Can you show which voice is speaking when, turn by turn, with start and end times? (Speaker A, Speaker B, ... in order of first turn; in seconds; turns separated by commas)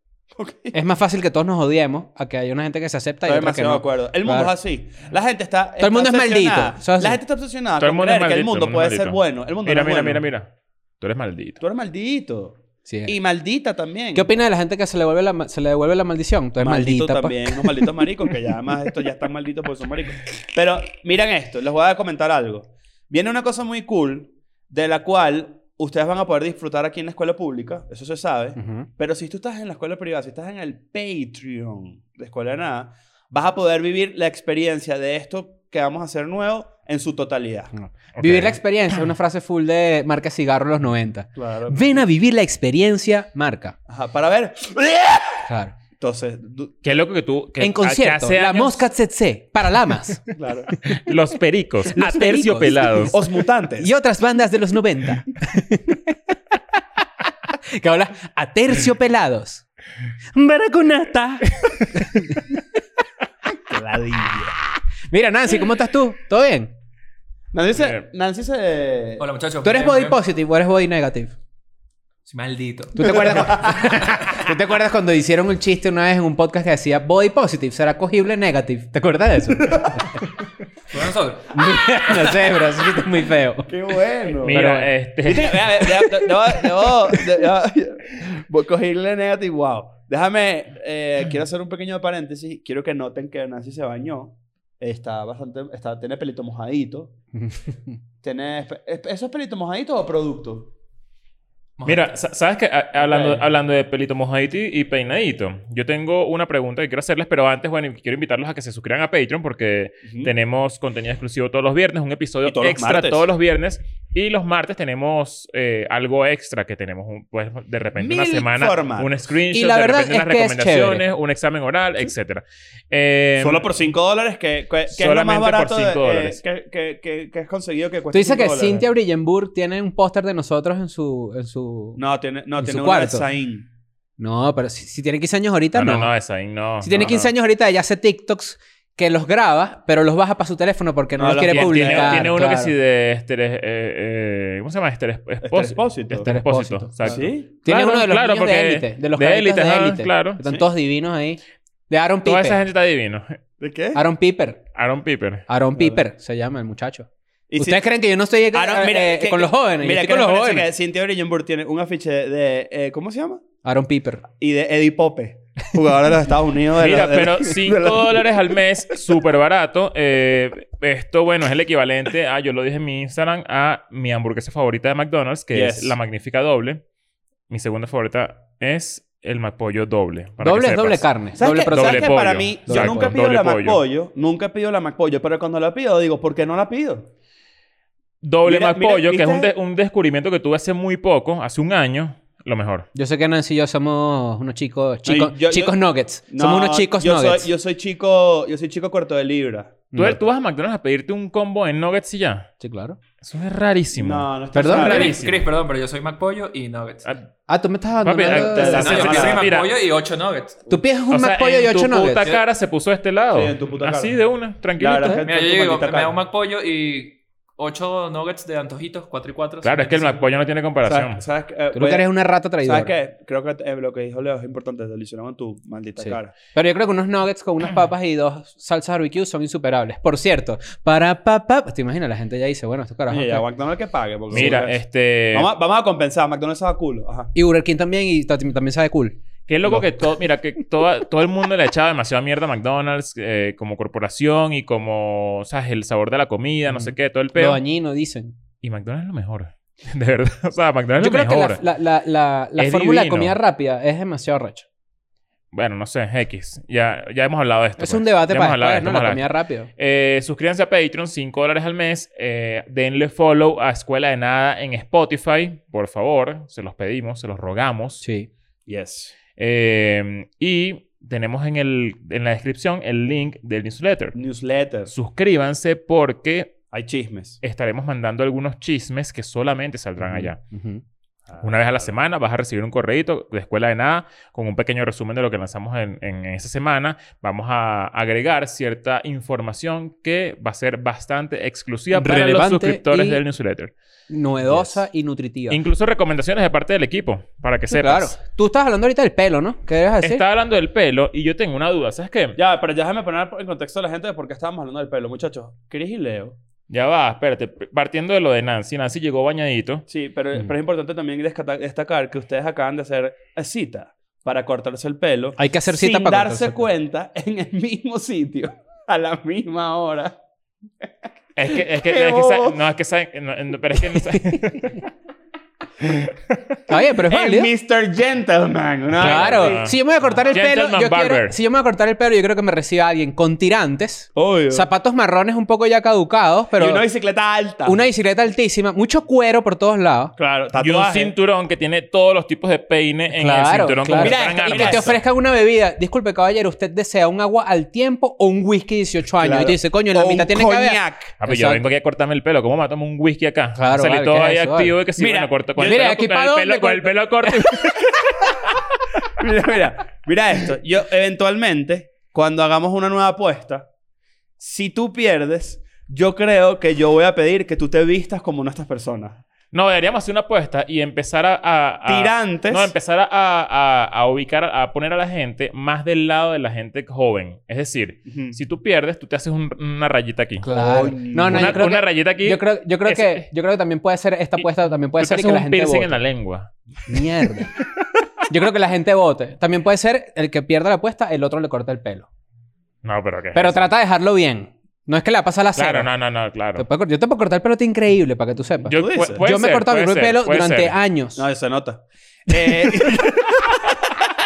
Speaker A: 0.3-0.7, Speaker B: 0.7-4.5, Speaker A: 3.2-10.2, Speaker B: 5.8-7.2, Speaker C: 7.8-11.6, Speaker A: 11.6-14.3, Speaker B: 12.9-13.2, Speaker B: 14.1-17.9, Speaker A: 16.6-37.7, Speaker B: 28.6-28.9, Speaker B: 37.7-43.7, Speaker C: 38.1-38.6, Speaker A: 41.4-42.0, Speaker A: 43.9-45.5, Speaker B: 45.5-45.7, Speaker A: 46.0-46.7, Speaker C: 46.8-48.9, Speaker B: 47.6-50.2, Speaker A: 50.3-50.7, Speaker C: 50.8-53.1, Speaker B: 51.9-53.1, Speaker A: 53.1-53.9, Speaker B: 53.8-56.1, Speaker B: 57.7-59.6, Speaker B: 60.3-62.4, Speaker A: 63.7-64.5, Speaker B: 65.1-66.7, Speaker A: 67.5-69.2, Speaker C: 67.7-68.0, Speaker D: 69.2-70.2, Speaker B: 69.6-71.3, Speaker D: 72.3-73.3, Speaker B: 73.0-80.2, Speaker A: 73.0-73.9, Speaker D: 80.9-81.8, Speaker B: 81.5-83.7, Speaker A: 83.7-84.7, Speaker C: 84.4-85.7, Speaker B: 84.4-84.9, Speaker A: 85.2-97.1, Speaker B: 97.3-97.9, Speaker A: 98.2-100.7, Speaker D: 101.8-102.1, Speaker C: 101.8-123.7, Speaker A: 103.0-103.4, Speaker A: 110.0-110.3, Speaker A: 112.4-113.2, Speaker A: 118.0-119.1, Speaker B: 119.5-121.0, Speaker A: 123.4-128.8, Speaker C: 124.9-126.4, Speaker B: 128.1-132.0, Speaker A: 132.0-133.7, Speaker B: 132.6-133.2, Speaker B: 134.2-136.1, Speaker C: 135.7-137.3, Speaker B: 136.8-142.7, Speaker A: 141.2-142.3, Speaker C: 141.5-150.4, Speaker A: 145.4-146.3, Speaker B: 146.2-152.6, Speaker A: 147.0-147.4, Speaker C: 152.2-153.4, Speaker A: 153.6-154.0, Speaker B: 153.9-154.6, Speaker C: 154.7-155.4, Speaker B: 155.5-160.7, Speaker A: 155.8-156.0, Speaker A: 157.5-157.8, Speaker A: 158.5-163.4, Speaker B: 163.6-164.2, Speaker A: 164.3-168.4, Speaker C: 166.8-176.8, Speaker A: 175.5-176.0, Speaker C: 177.5-183.8, Speaker B: 180.4-183.1, Speaker A: 181.4-187.1, Speaker C: 188.2-192.9, Speaker A: 188.4-189.5, Speaker B: 192.9-197.5, Speaker A: 195.0-195.7, Speaker A: 196.3-199.8, Speaker B: 199.9-200.2, Speaker C: 199.9-202.5, Speaker B: 202.6-203.0, Speaker C: 203.2-205.5, Speaker A: 203.9-205.2, Speaker B: 204.5-204.9, Speaker D: 204.8-207.1, Speaker B: 207.5-209.1, Speaker C: 208.0-209.7, Speaker A: 208.2-209.5, Speaker D: 208.7-210.7, Speaker B: 210.7-212.4, Speaker C: 211.1-215.2, Speaker A: 213.3-214.2, Speaker A: 214.8-216.2, Speaker D: 215.2-220.2, Speaker C: 219.6-221.2, Speaker A: 220.8-222.1, Speaker B: 221.7-222.9, Speaker A: 222.6-226.3, Speaker B: 226.0-233.4, Speaker A: 233.1-234.8, Speaker C: 234.3-235.5, Speaker B: 234.3-234.6, Speaker A: 235.3-237.3, Speaker B: 237.3-240.1, Speaker C: 239.5-247.6, Speaker B: 246.7-248.3, Speaker C: 248.6-251.6, Speaker B: 251.0-254.6, Speaker C: 252.6-253.3, Speaker C: 255.5-259.2, Speaker B: 257.8-259.7, Speaker C: 259.8-268.0, Speaker B: 268.0-268.3, Speaker A: 268.7-269.1, Speaker C: 269.4-274.2, Speaker A: 274.1-274.9, Speaker C: 274.9-276.6, Speaker A: 276.7-277.4, Speaker C: 277.4-280.4, Speaker B: 280.0-280.8, Speaker A: 281.3-281.9, Speaker C: 281.4-293.7, Speaker B: 291.9-293.2, Speaker B: 294.1-295.6, Speaker C: 294.5-294.8, Speaker C: 295.5-298.1, Speaker B: 297.7-300.2, Speaker C: 300.0-302.4, Speaker A: 302.4-306.4, Speaker C: 306.7-309.8, Speaker A: 309.9-320.2, Speaker B: 315.4-316.7, Speaker C: 321.4-324.8, Speaker A: 321.4-322.6, Speaker B: 324.1-324.4, Speaker B: 326.7-327.5, Speaker A: 327.1-329.7, Speaker C: 328.9-331.3, Speaker B: 329.0-336.8, Speaker A: 334.1-334.7, Speaker A: 336.6-337.8, Speaker B: 337.6-340.1, Speaker A: 340.2-341.1, Speaker C: 340.6-345.0, Speaker B: 343.1-351.6, Speaker A: 344.0-345.0, Speaker A: 349.2-351.1, Speaker C: 351.2-358.6, Speaker B: 353.6-354.7, Speaker A: 355.0-355.8, Speaker B: 355.6-357.9, Speaker A: 359.2-363.7, Speaker A: 364.4-369.2, Speaker C: 369.5-380.4, Speaker A: 371.8-372.7, Speaker A: 378.1-378.4, Speaker B: 380.4-385.9, Speaker A: 380.5-381.6, Speaker C: 381.1-383.2, Speaker C: 385.0-386.5, Speaker B: 386.9-387.5, Speaker B: 388.3-392.1, Speaker C: 392.8-393.6, Speaker B: 393.3-395.9, Speaker C: 395.6-396.6, Speaker B: 396.6-401.2, Speaker C: 398.7-400.8, Speaker A: 398.8-399.2, Speaker A: 401.1-404.0